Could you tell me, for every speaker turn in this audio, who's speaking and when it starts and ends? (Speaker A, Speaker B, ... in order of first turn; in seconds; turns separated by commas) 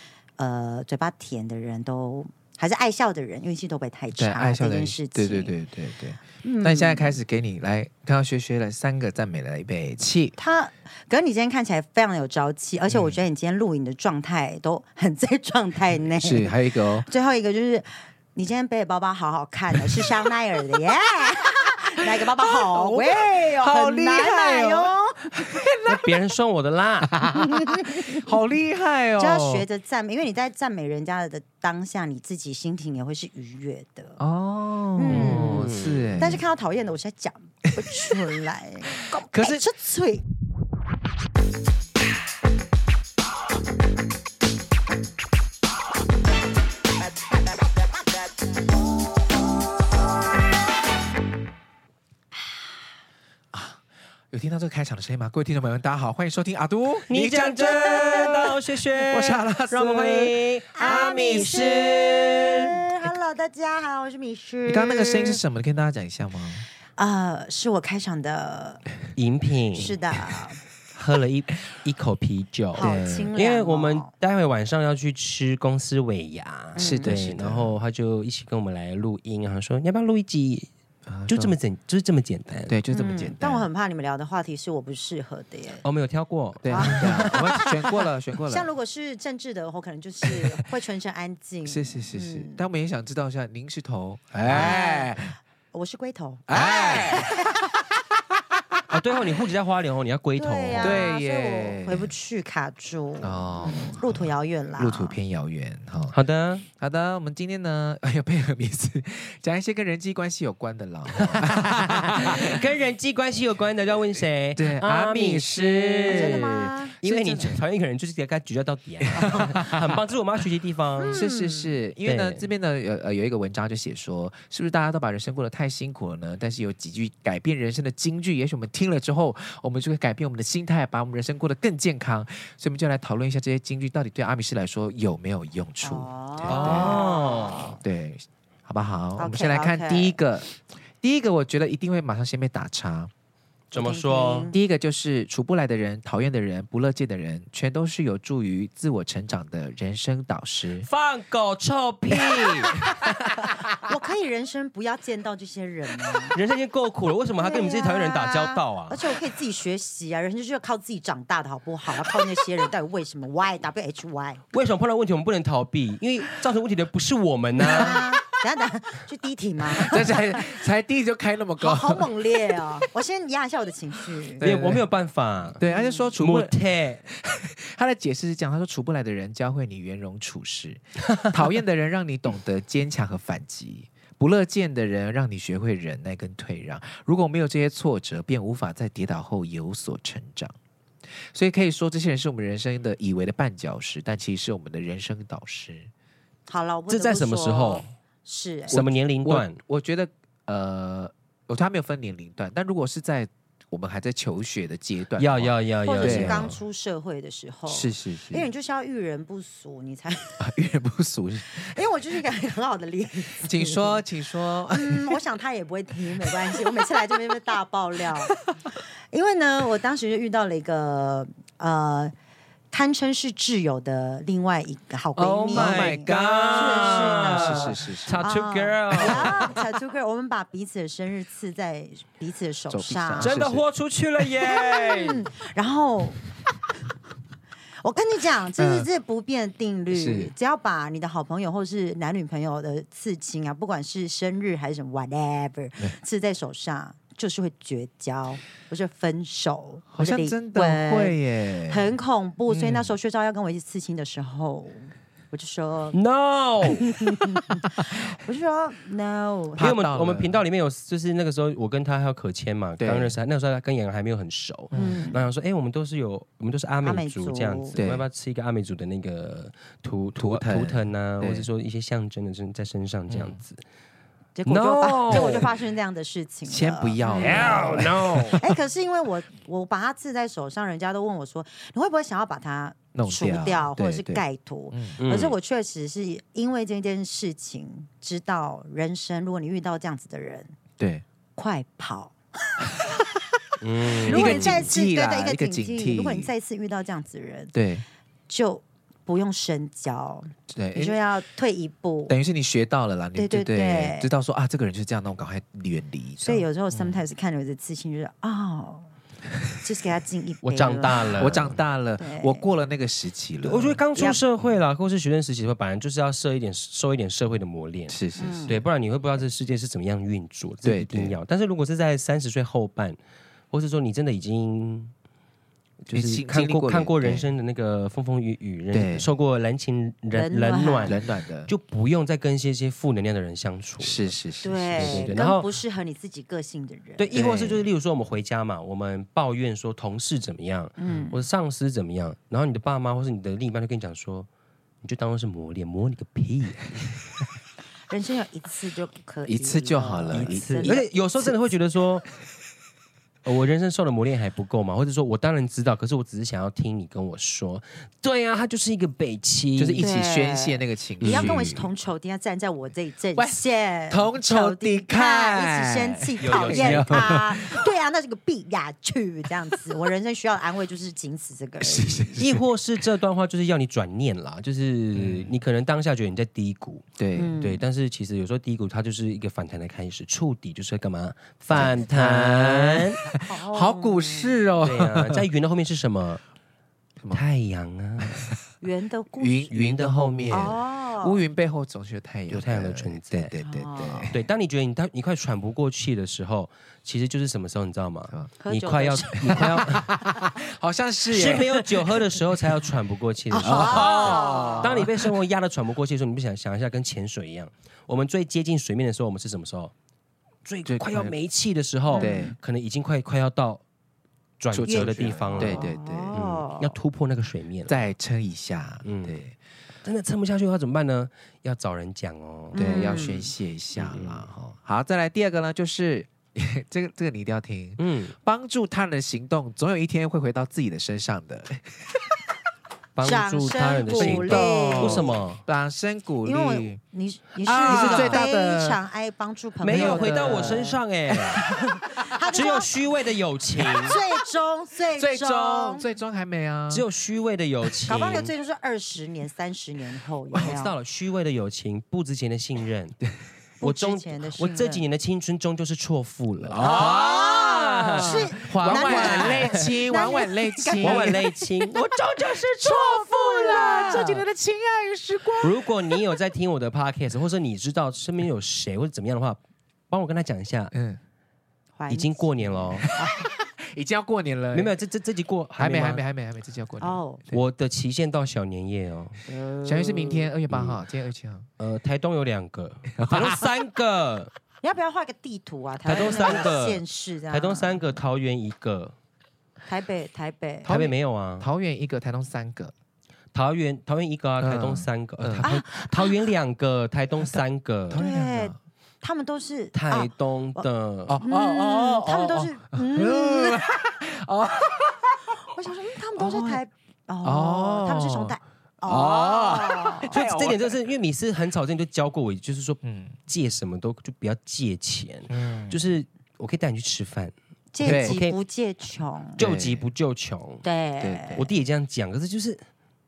Speaker A: 0.4-5.5, Speaker B: 4.1-10.4, Speaker A: 6.4-7.2, Speaker A: 10.4-25.2, Speaker B: 12.9-13.2, Speaker B: 16.1-17.1, Speaker B: 22.0-26.2, Speaker C: 25.8-27.2, Speaker B: 27.1-29.6, Speaker A: 27.3-28.2, Speaker A: 29.2-34.2, Speaker B: 34.2-36.4, Speaker A: 34.9-40.2, Speaker C: 35.1-36.3, Speaker B: 37.8-38.1, Speaker B: 39.2-39.7, Speaker B: 53.5-60.3, Speaker C: 57.1-62.7, Speaker A: 57.9-58.3, Speaker A: 60.7-65.4, Speaker B: 64.7-66.7, Speaker A: 67.0-68.8, Speaker C: 69.2-70.0, Speaker A: 69.7-70.6, Speaker C: 70.9-80.7, Speaker A: 72.7-74.1, Speaker B: 72.8-73.3, Speaker A: 76.8-77.1, Speaker B: 76.8-77.8, Speaker B: 81.0-81.5, Speaker C: 81.3-82.8, Speaker B: 82.7-83.7, Speaker A: 82.9-85.8, Speaker C: 85.8-87.6, Speaker B: 86.6-88.7, Speaker A: 86.7-92.6, Speaker B: 90.3-90.6, Speaker B: 91.6-95.3, Speaker A: 94.5-97.7, Speaker B: 96.5-97.8, Speaker C: 98.9-101.0, Speaker A: 100.3-105.1, Speaker B: 100.7-102.1, Speaker B: 103.2-106.2, Speaker C: 106.1-106.6, Speaker B: 106.8-112.6, Speaker C: 112.1-121.2, Speaker B: 114.5-117.6, Speaker A: 116.1-116.9, Speaker B: 119.1-120.0, Speaker A: 121.0-121.7, Speaker B: 121.1-137.1, Speaker C: 122.0-122.4, Speaker A: 135.8-137.8, Speaker C: 136.4-137.8, Speaker B: 137.8-143.1, Speaker A: 139.2-140.2, Speaker C: 143.7-144.5, Speaker A: 143.7-144.6, Speaker B: 144.5-150.9, Speaker C: 150.8-152.9, Speaker B: 152.3-152.9, Speaker A: 152.6-153.0, Speaker A: 153.8-156.3, Speaker C: 156.3-159.2, Speaker A: 157.4-164.4, Speaker C: 164.5-168.0, Speaker A: 167.6-170.5, Speaker B: 167.6-168.2, Speaker B: 169.7-172.9, Speaker A: 171.6-174.5, Speaker B: 174.4-174.9, Speaker C: 174.4-175.6, Speaker B: 175.5-176.5, Speaker A: 175.6-176.1, Speaker C: 176.2-177.1, Speaker B: 177.1-190.5, Speaker B: 191.3-195.9, Speaker A: 196.5-198.8, Speaker C: 196.9-197.9, Speaker B: 198.7-206.6, Speaker C: 198.7-199.6, Speaker C: 205.2-206.6, Speaker A: 205.8-210.5, Speaker B: 207.7-208.5, Speaker B: 210.4-211.8, Speaker A: 211.5-214.0, Speaker B: 213.4-215.2, Speaker A: 214.7-218.3, Speaker A: 219.1-222.1, Speaker A: 222.7-233.4, Speaker C: 225.2-229.6, Speaker B: 225.5-228.3, Speaker B: 228.9-229.6, Speaker B: 232.7-233.6, Speaker C: 233.2-235.3, Speaker A: 234.4-236.2, Speaker A: 237.8-256.0, Speaker B: 238.6-238.9, Speaker B: 239.9-240.3, Speaker B: 249.9-251.9, Speaker B: 252.5-252.9, Speaker C: 255.9-256.9, Speaker A: 256.6-259.7, Speaker B: 259.6-260.4, Speaker C: 259.6-273.6, Speaker B: 262.8-263.2, Speaker B: 264.7-265.0, Speaker A: 264.7-265.2, Speaker A: 266.8-267.8, Speaker B: 267.8-268.1, Speaker B: 270.2-271.5, Speaker B: 273.1-273.4, Speaker A: 274.4-277.8, Speaker C: 274.4-275.5, Speaker B: 275.1-275.5, Speaker B: 276.4-278.5, Speaker C: 277.1-278.4, Speaker A: 278.3-290.6, Speaker B: 282.9-285.0, Speaker C: 285.0-285.4, Speaker B: 290.8-291.0, Speaker A: 291.4-292.2, Speaker C: 293.6-294.7, Speaker B: 294.0-296.3, Speaker A: 294.1-297.5, Speaker B: 297.5-297.8, Speaker A: 298.3-302.1, Speaker B: 300.5-301.0, Speaker B: 302.1-307.0, Speaker A: 303.1-304.1, Speaker A: 306.2-308.9, Speaker A: 309.6-311.1, Speaker C: 310.4-311.6, Speaker B: 311.2-313.8, Speaker A: 312.0-312.4, Speaker C: 313.4-323.0, Speaker A: 313.9-314.2, Speaker B: 317.9-318.5, Speaker A: 318.1-318.6, Speaker B: 320.6-321.2, Speaker C: 323.5-324.9, Speaker B: 325.9-327.3, Speaker C: 325.9-334.1, Speaker B: 328.7-329.1, Speaker A: 330.1-331.0, Speaker B: 330.9-331.5, Speaker B: 333.8-335.2, Speaker A: 334.4-337.1, Speaker C: 334.7-335.5, Speaker C: 337.0-344.3, Speaker B: 337.1-337.7, Speaker A: 340.8-341.2, Speaker C: 344.8-347.0, Speaker A: 347.9-351.3, Speaker B: 349.2-350.9, Speaker C: 350.1-352.1, Speaker C: 353.2-359.9, Speaker B: 359.6-361.6, Speaker A: 359.8-372.1, Speaker C: 361.0-361.6, Speaker B: 363.2-367.6, Speaker C: 366.2-367.3, Speaker B: 371.6-372.4, Speaker C: 372.1-383.0, Speaker B: 374.9-375.3, Speaker B: 377.0-377.3, Speaker A: 377.1-377.6, Speaker B: 381.5-385.2, Speaker A: 383.0-384.4, Speaker C: 384.6-386.2, Speaker C: 387.1-388.3, Speaker B: 388.0-388.3, Speaker A: 388.6-389.5, Speaker B: 389.2-394.2, Speaker C: 389.5-390.6, Speaker A: 390.3-391.2, Speaker C: 392.3-393.3, Speaker A: 393.4-394.1, Speaker C: 394.1-400.0, Speaker A: 398.4-399.8, Speaker B: 399.2-402.0, Speaker C: 401.1-409.7, Speaker A: 403.3-404.7, Speaker B: 403.4-405.2, Speaker C: 410.4-413.6, Speaker B: 410.6-411.1, Speaker A: 411.9-412.3, Speaker B: 411.9-412.4, Speaker C: 414.4-417.9, Speaker B: 414.5-416.1, Speaker A: 414.6-416.8, Speaker B: 417.7-419.3, Speaker C: 418.8-419.2, Speaker C: 419.8-423.0, Speaker A: 422.5-423.3, Speaker B: 422.5-432.2, Speaker C: 423.7-424.2, Speaker C: 427.8-428.1, Speaker C: 432.9-435.4, Speaker A: 433.0-435.1, Speaker B: 433.9-436.8, Speaker A: 436.2-442.8, Speaker B: 437.4-438.8, Speaker C: 437.6-438.2, Speaker C: 439.6-441.4, Speaker B: 439.6-440.7, Speaker C: 442.2-443.9, Speaker B: 443.7-444.0, Speaker A: 443.8-445.8, Speaker B: 444.9-446.9, Speaker C: 446.7-448.3, Speaker A: 447.9-450.7, Speaker C: 450.3-453.0, Speaker C: 453.6-459.7, Speaker A: 453.6-454.8, Speaker B: 456.4-461.3, Speaker A: 456.6-461.4, Speaker C: 460.8-461.9, Speaker B: 461.9-465.9, Speaker A: 462.6-464.2, Speaker C: 465.4-469.4, Speaker C: 469.9-470.7, Speaker B: 470.7-471.0, Speaker A: 471.8-473.1, Speaker C: 471.9-472.9, Speaker B: 472.8-474.8, Speaker C: 474.5-476.0, Speaker B: 475.6-477.4, Speaker A: 476.8-477.2, Speaker C: 477.3-479.2, Speaker A: 479.3-480.3, Speaker B: 479.6-481.5, Speaker C: 480.5-480.8, Speaker C: 481.6-484.3, Speaker B: 483.0-483.5, Speaker A: 484.6-488.0, Speaker C: 485.9-488.9, Speaker B: 485.9-486.4, Speaker A: 489.6-490.9, Speaker B: 490.6-492.7, Speaker C: 490.7-491.5, Speaker C: 493.3-498.0, Speaker B: 494.4-495.5, Speaker A: 495.4-496.1, Speaker B: 497.2-498.6, Speaker A: 497.9-500.7, Speaker C: 499.7-501.2, Speaker B: 501.1-505.4, Speaker A: 501.2-503.7, Speaker A: 505.4-510.1, Speaker B: 506.2-506.6, Speaker B: 507.2-510.9, Speaker C: 510.1-518.4, Speaker B: 512.8-513.1, Speaker B: 515.3-515.9, Speaker A: 517.7-519.4, Speaker B: 517.8-518.2, Speaker B: 519.4-519.9, Speaker C: 519.4-520.6, Speaker A: 520.6-521.4, Speaker B: 521.0-521.5, Speaker C: 521.3-522.6